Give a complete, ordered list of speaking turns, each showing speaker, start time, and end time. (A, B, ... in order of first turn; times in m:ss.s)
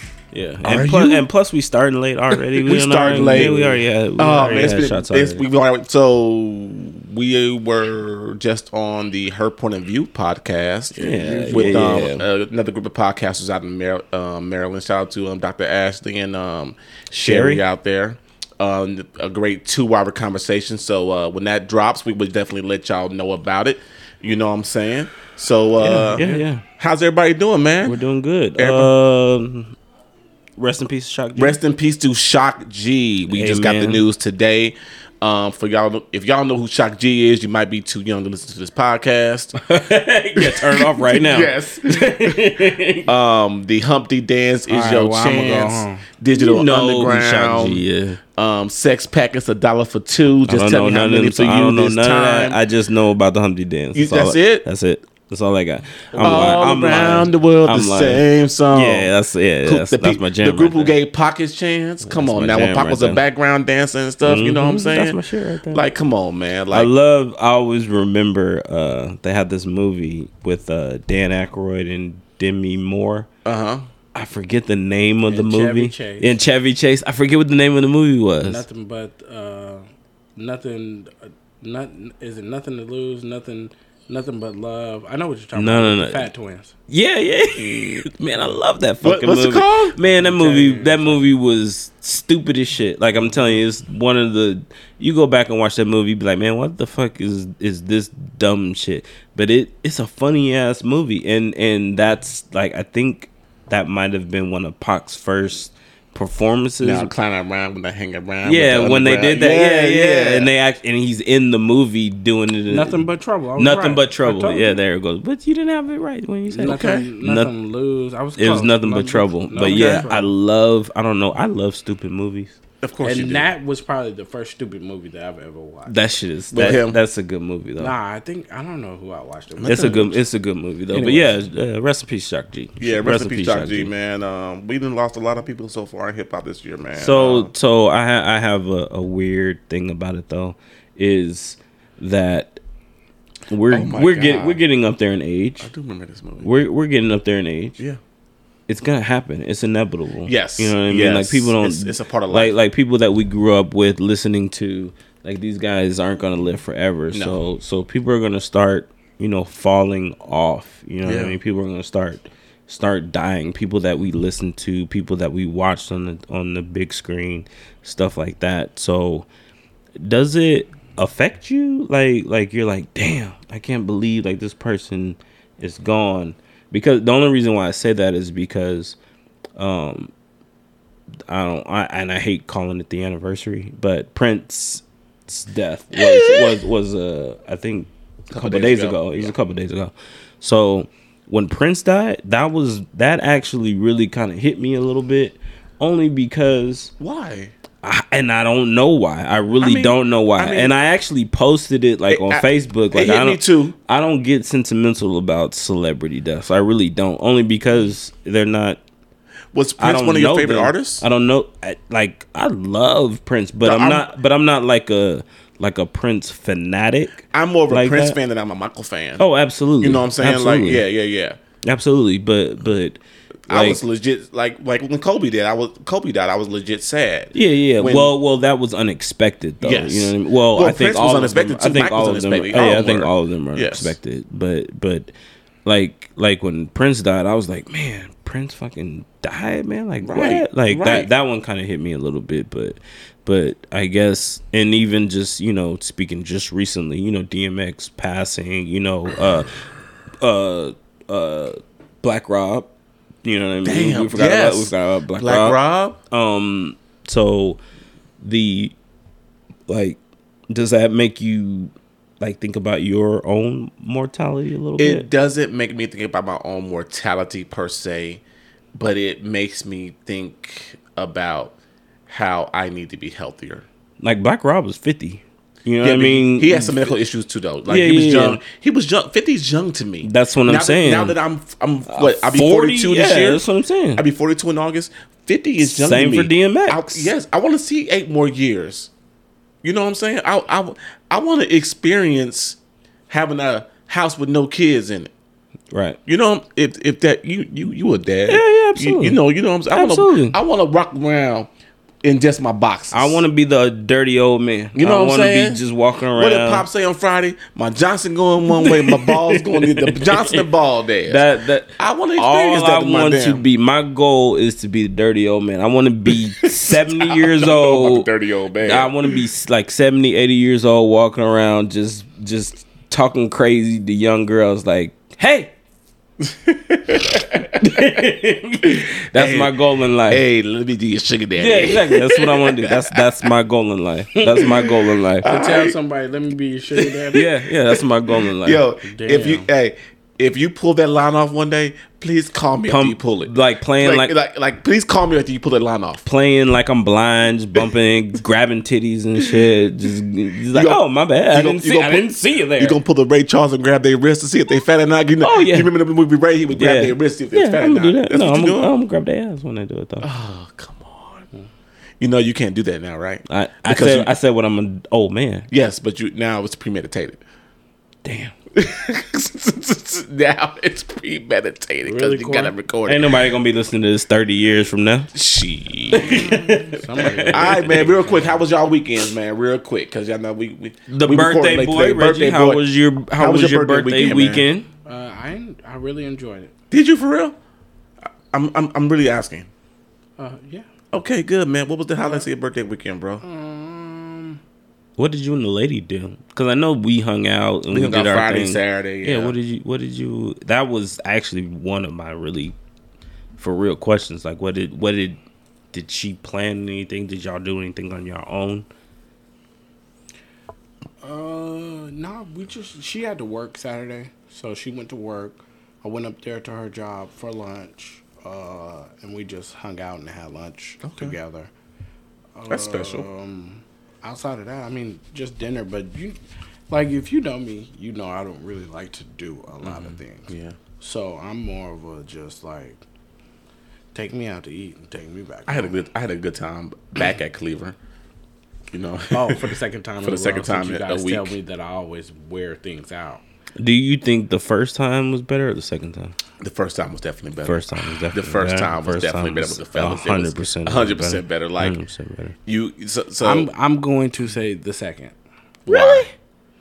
0:00.3-0:05.4 A
0:00.6-0:01.3 B
0:02.3-0:28.0 B
0:03.2-0:03.7 C
0:11.0-0:12.2 A
0:11.0-0:12.1 C
0:17.1-0:17.6 A
0:25.8-0:26.6 A
0:26.2-0:26.4 C
0:27.8-0:29.7 A
0:28.6-0:28.9 B
0:30.6-0:31.6 A
0:31.4-0:39.6 B
0:33.3-0:34.0 A
0:39.6-0:43.1 A
0:40.4-0:47.8 B
0:44.7-0:46.0 C
0:46.3-0:48.2 A
0:48.3-0:52.6 B
0:50.4-1:01.0 A
0:53.9-0:54.6 B
0:56.2-0:59.1 B
0:59.6-1:06.9 B
1:02.0-1:03.2 A
1:04.2-1:05.8 A
1:06.7-1:13.3 A
1:13.4-1:13.9 B
1:14.1-1:18.6 A
1:15.3-1:16.4 C
1:18.4-1:26.7 C
1:25.5-1:26.3 A
1:26.9-1:47.1 A
1:29.0-1:29.9 B
1:30.1-1:31.2 C
1:46.8-1:50.5 B
1:48.4-1:53.0 A
1:52.7-1:54.8 C
1:53.6-1:57.5 A
1:56.5-2:00.3 C
1:56.6-1:57.1 B
1:58.4-2:02.5 A
1:59.6-2:00.1 B
2:02.8-2:03.5 B
2:03.0-2:06.0 C
2:05.9-2:07.9 A
2:06.5-2:07.0 B
2:07.8-2:10.2 C
2:09.6-2:10.2 B
2:09.6-2:13.9 A
2:10.9-2:11.4 C
2:12.8-2:17.5 B
2:16.9-2:22.6 A
2:23.5-2:25.7 A
2:23.7-2:24.6 B
2:25.6-2:26.5 B
2:26.4-2:27.8 A
2:28.7-2:49.2 A
2:30.2-2:32.6 B
2:37.1-2:37.4 B
2:41.0-2:41.4 B
2:50.0-2:59.0 A
2:59.6-3:00.1 A
3:01.3-3:16.9 A
3:05.9-3:06.6 B
3:08.3-3:09.3 B
3:17.0-3:17.5 B
3:17.8-3:28.8 A
3:19.6-3:20.7 B
3:22.1-3:23.7 B
3:29.5-3:31.0 B
3:29.8-3:38.2 A
3:33.6-3:34.1 B
3:37.3-3:39.2 B
3:39.2-3:40.8 A
3:39.8-3:41.4 B
3:41.6-3:43.8 A
3:43.5-3:48.1 B
3:47.3-3:55.1 A
3:49.6-3:53.9 B
3:55.6-4:09.5 A
4:00.0-4:01.1 B
4:10.2-4:12.7 A
4:13.2-4:15.6 A
4:13.6-4:16.0 B
4:16.1-4:17.6 A
4:18.2-4:18.7 A
4:19.7-4:20.0 A
4:20.5-4:25.1 A
4:24.8-4:28.2 B
4:28.8-4:31.5 B
4:32.1-4:33.6 B
4:34.0-4:36.9 A
4:35.8-4:43.4 B
4:37.7-4:38.4 A
4:40.0-4:41.1 A
4:41.9-4:44.0 A
4:43.9-4:48.9 B
4:45.6-4:47.1 A
4:49.6-4:52.6 B
4:53.1-4:55.1 B
4:55.7-4:56.0 A
4:56.0-5:01.5 B
4:58.3-4:59.2 A
4:59.7-5:00.4 A
5:02.0-5:03.2 B
5:02.9-5:06.6 A
5:04.7-5:05.6 B
5:06.1-5:11.2 B
5:08.5-5:10.5 A
5:11.1-5:25.5 A
5:11.8-5:13.4 B
5:16.1-5:19.2 B
5:26.2-5:27.7 B
5:27.6-5:30.2 A
5:28.6-5:29.5 B
5:30.1-5:33.0 B
5:31.4-5:35.3 A
5:34.2-5:34.5 C
5:35.2-5:35.8 B
5:35.2-5:37.3 C
5:36.8-5:38.6 A
5:38.4-5:46.0 B
5:38.8-5:39.5 C
5:42.7-5:44.1 A
5:46.0-5:52.8 A
5:50.5-5:58.7 B
5:55.2-5:55.7 A
5:56.5-6:00.1 A
6:00.0-6:01.2 B
6:02.0-6:04.1 B
6:03.3-6:05.5 A
6:05.5-6:07.2 B
6:08.0-6:08.3 A
6:08.5-6:13.2 B
6:11.8-6:12.5 C
6:12.8-6:15.1 A
6:15.1-6:16.3 B
6:16.0-6:17.6 C
6:16.0-6:17.9 A
6:17.3-6:22.6 B
6:20.9-6:24.7 A
6:23.2-6:24.5 B
6:24.8-6:26.5 C
6:26.7-6:27.4 B
6:28.3-6:29.5 B
6:30.2-6:30.6 C
6:30.9-6:33.2 B
6:33.2-6:34.4 C
6:35.0-6:42.5 A
6:37.7-6:39.3 B
6:43.4-6:45.2 A
6:45.7-6:48.6 A
6:51.0-7:01.5 C
7:00.8-7:01.2 B
7:02.4-7:06.2 C
7:02.5-7:03.1 B
7:06.7-7:12.8 C
7:09.6-7:10.6 B
7:13.9-7:15.8 C
7:15.5-7:17.8 B
7:18.7-7:21.4 B
7:19.1-7:23.2 C
7:23.6-7:26.1 A
7:26.4-7:31.7 B
7:27.4-7:32.4 A
7:32.4-7:33.5 B
7:33.2-7:35.1 C
7:35.6-7:36.1 B
7:35.7-7:36.1 A